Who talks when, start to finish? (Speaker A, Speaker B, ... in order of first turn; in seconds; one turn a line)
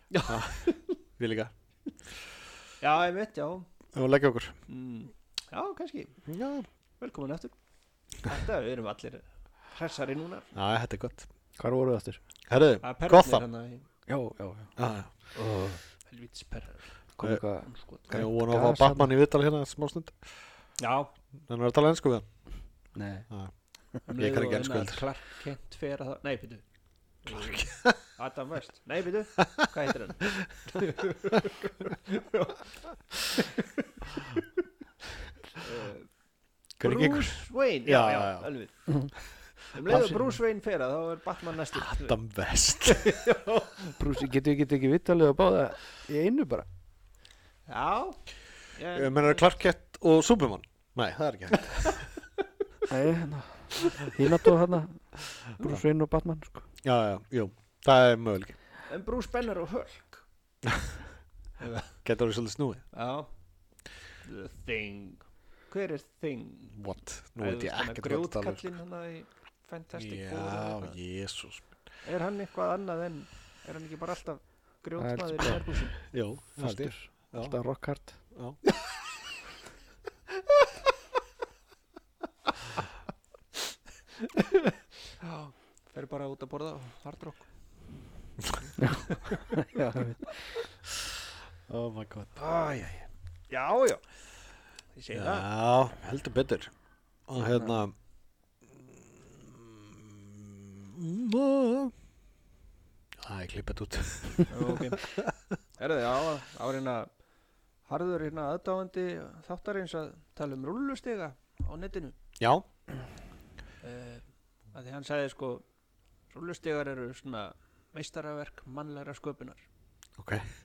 Speaker A: 0.1-0.9
Speaker B: 0.2-0.6
Speaker B: 1.2-1.5
Speaker A: 2.8-3.6
Speaker B: 3.9-4.5
Speaker A: 4.7-6.2
Speaker B: 6.3-6.7
Speaker A: 7.0-7.5
Speaker A: 8.2-10.5
Speaker B: 10.5-11.3
Speaker C: 11.6-12.2
Speaker B: 12.5-13.4
Speaker A: 12.8-13.8
Speaker C: 14.1-14.7
Speaker B: 14.8-15.1
Speaker C: 15.4-15.8
Speaker A: 16.1-16.9
Speaker C: 17.2-19.1
Speaker A: 17.6-18.2
Speaker B: 18.1-20.2
Speaker A: 20.8-21.1
Speaker B: 21.5-22.2
Speaker C: 22.9-23.3
Speaker A: 24.1-26.6
Speaker B: 24.1-25.0
Speaker A: 27.2-32.6
Speaker B: 27.3-28.0
Speaker A: 33.3-34.4
Speaker A: 35.5-36.1
Speaker B: 36.8-38.5
Speaker A: 36.8-39.1
Speaker A: 39.7-42.2
Speaker C: 39.9-40.3
Speaker B: 41.7-43.1
Speaker A: 42.8-44.0
Speaker C: 44.0-46.7
Speaker A: 47.7-48.2
Speaker A: 48.7-49.5
Speaker B: 48.9-52.0
Speaker C: 52.9-56.6
Speaker B: 56.8-58.6
Speaker A: 58.9-60.2
Speaker B: 60.6-60.9
Speaker A: 61.6-61.9
Speaker B: 62.0-62.8
Speaker A: 62.9-63.3
Speaker A: 64.2-66.8
Speaker B: 66.7-68.6
Speaker A: 67.4-71.0
Speaker B: 69.9-71.7
Speaker A: 72.0-76.0
Speaker C: 75.0-75.6
Speaker B: 76.1-77.6
Speaker C: 76.6-78.2
Speaker B: 78.3-78.6
Speaker A: 84.2-87.5
Speaker C: 88.8-90.5
Speaker A: 89.1-89.5
Speaker B: 91.7-92.3
Speaker A: 92.4-94.0
Speaker A: 94.9-95.5
Speaker B: 95.1-96.7
Speaker B: 97.3-97.9
Speaker A: 97.4-97.8
Speaker B: 98.7-101.9
Speaker B: 103.2-105.3
Speaker A: 104.5-105.2
Speaker A: 105.8-107.1
Speaker A: 107.8-112.1
Speaker B: 112.4-112.6
Speaker A: 113.8-115.6
Speaker A: 116.3-119.6
Speaker B: 120.2-120.4